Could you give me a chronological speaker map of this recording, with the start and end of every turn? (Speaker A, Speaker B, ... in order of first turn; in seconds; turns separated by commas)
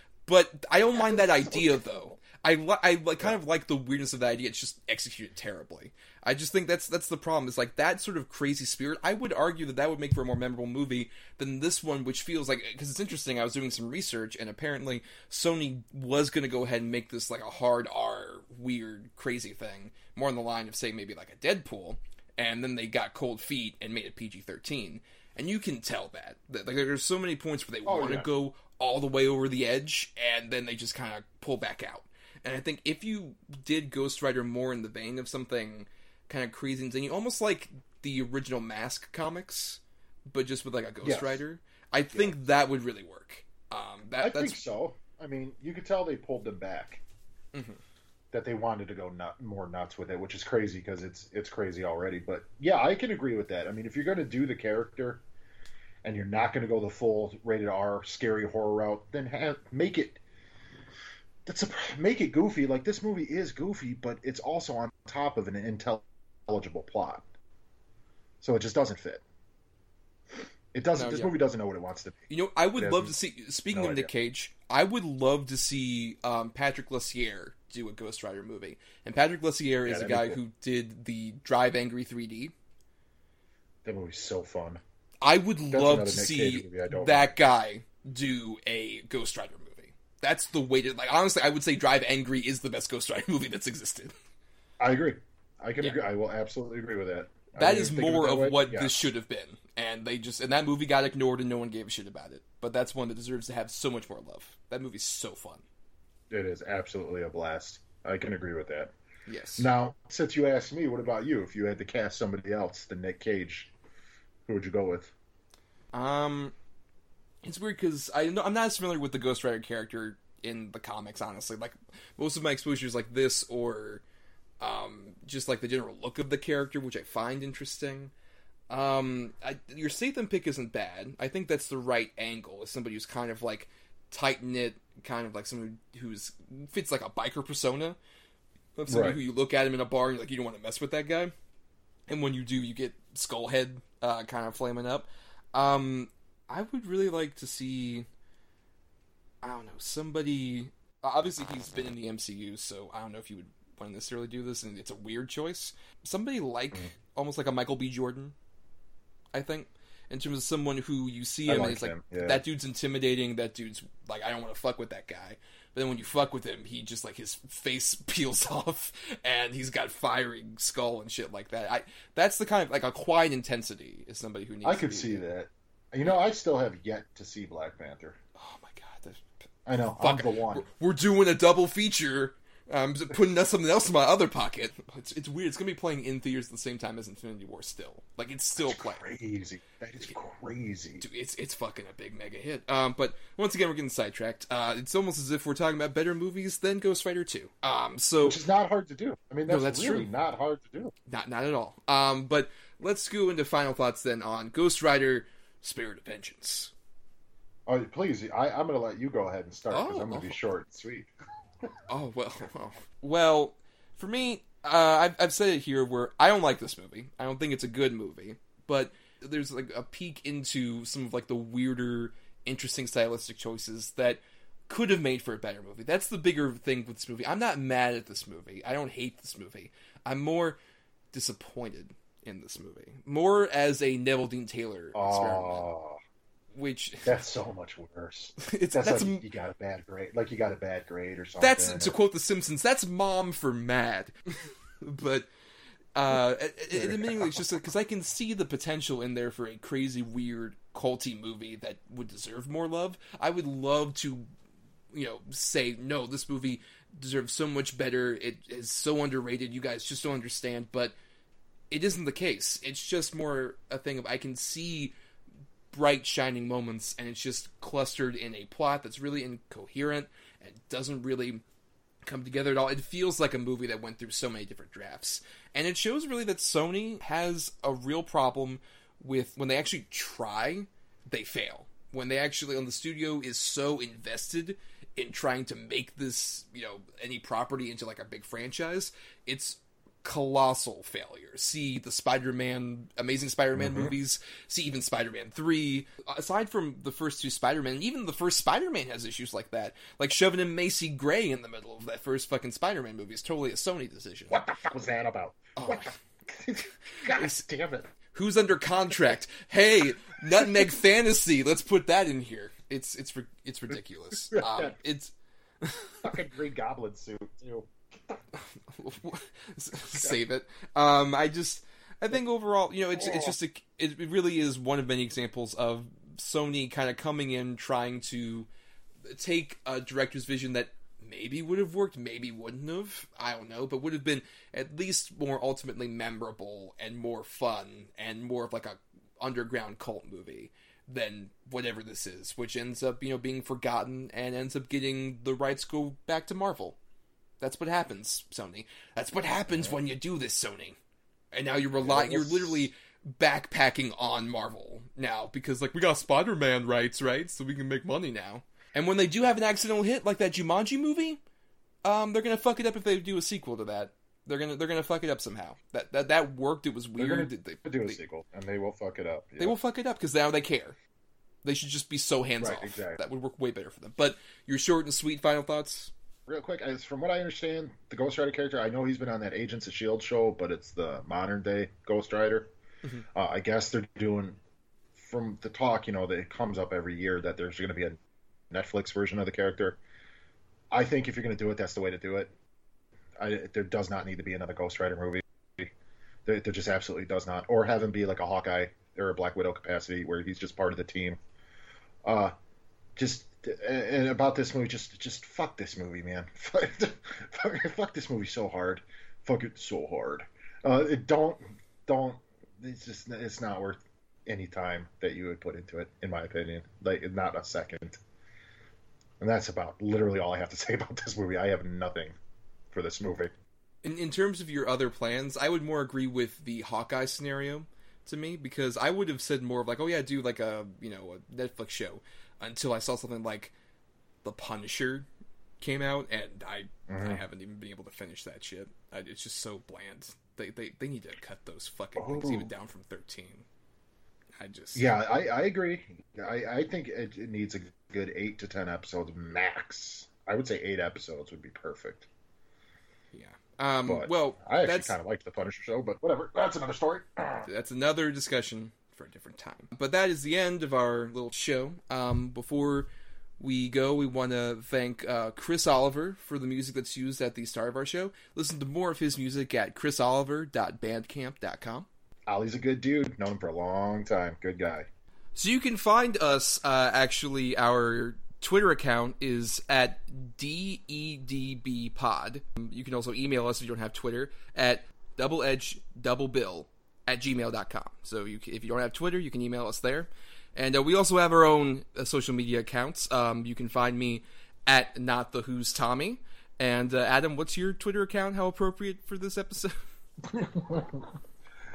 Speaker A: 0.2-44.6, Speaker B: 1.1-1.6, Speaker B: 27.8-28.3, Speaker B: 41.0-41.4, Speaker B: 42.1-42.4, Speaker B: 44.2-47.0, Speaker A: 47.5-47.8, Speaker B: 48.3-55.2, Speaker B: 56.0-60.2, Speaker B: 61.5-67.2, Speaker B: 68.4-69.2, Speaker B: 70.7-73.1, Speaker A: 71.0-71.3, Speaker A: 72.3-82.5, Speaker B: 73.7-74.1, Speaker B: 79.8-80.4, Speaker B: 83.8-84.8, Speaker A: 85.2-94.1, Speaker B: 85.7-87.3, Speaker B: 94.8-99.0, Speaker A: 97.6-105.6, Speaker B: 106.3-108.9, Speaker A: 109.3-109.7, Speaker B: 109.6-113.7, Speaker B: 114.5-115.1, Speaker A: 115.9-116.5, Speaker A: 117.4-124.0, Speaker A: 124.6-128.1, Speaker A: 128.7-138.0, Speaker A: 138.8-141.3, Speaker B: 138.9-139.2, Speaker A: 142.1-148.1, Speaker A: 149.4-158.3, Speaker A: 159.3-175.2, Speaker B: 161.5-162.4, Speaker B: 174.6-178.2, Speaker A: 178.3-179.4, Speaker B: 179.7-180.7, Speaker A: 180.0-189.0, Speaker B: 188.6-191.0, Speaker A: 191.0-198.4, Speaker B: 198.2-200.9, Speaker A: 199.5-200.1, Speaker A: 201.1-206.7, Speaker B: 207.7-211.1, Speaker A: 209.7-210.4, Speaker A: 211.9-230.6, Speaker A: 231.1-235.7, Speaker B: 234.9-236.0, Speaker A: 236.5-237.1, Speaker B: 237.0-241.9, Speaker A: 238.4-239.2, Speaker A: 241.4-245.3, Speaker A: 245.9-254.3, Speaker B: 246.7-247.4, Speaker A: 254.9-260.9, Speaker A: 261.7-264.9, Speaker A: 265.7-271.4, Speaker A: 272.0-304.4, Speaker B: 293.6-293.9, Speaker B: 304.3-307.9, Speaker A: 305.6-305.9, Speaker A: 307.1-307.4, Speaker A: 308.1-316.0, Speaker B: 314.3-314.7, Speaker B: 316.0-318.2, Speaker A: 318.6-328.5, Speaker B: 323.0-323.3, Speaker A: 329.0-346.8, Speaker A: 347.4-350.8, Speaker A: 351.3-361.2, Speaker B: 351.8-352.7, Speaker A: 361.8-368.0, Speaker B: 367.0-369.6, Speaker A: 369.4-370.8, Speaker A: 371.4-375.9, Speaker B: 372.4-373.0, Speaker B: 376.3-382.5, Speaker B: 383.1-384.4, Speaker B: 384.9-388.0, Speaker B: 388.5-389.8, Speaker B: 390.7-392.3, Speaker B: 393.2-395.7, Speaker B: 396.2-401.2, Speaker B: 402.0-402.3, Speaker B: 402.9-418.0, Speaker B: 419.2-422.1, Speaker B: 422.7-423.3, Speaker A: 423.8-433.5, Speaker A: 434.2-435.1, Speaker A: 435.6-443.4, Speaker B: 436.9-437.2, Speaker B: 442.0-442.5, Speaker A: 444.4-444.9, Speaker B: 444.7-452.1, Speaker A: 453.1-454.9, Speaker B: 453.8-457.5, Speaker A: 457.4-471.9, Speaker B: 472.3-474.9, Speaker A: 475.3-499.8, Speaker B: 500.3-501.1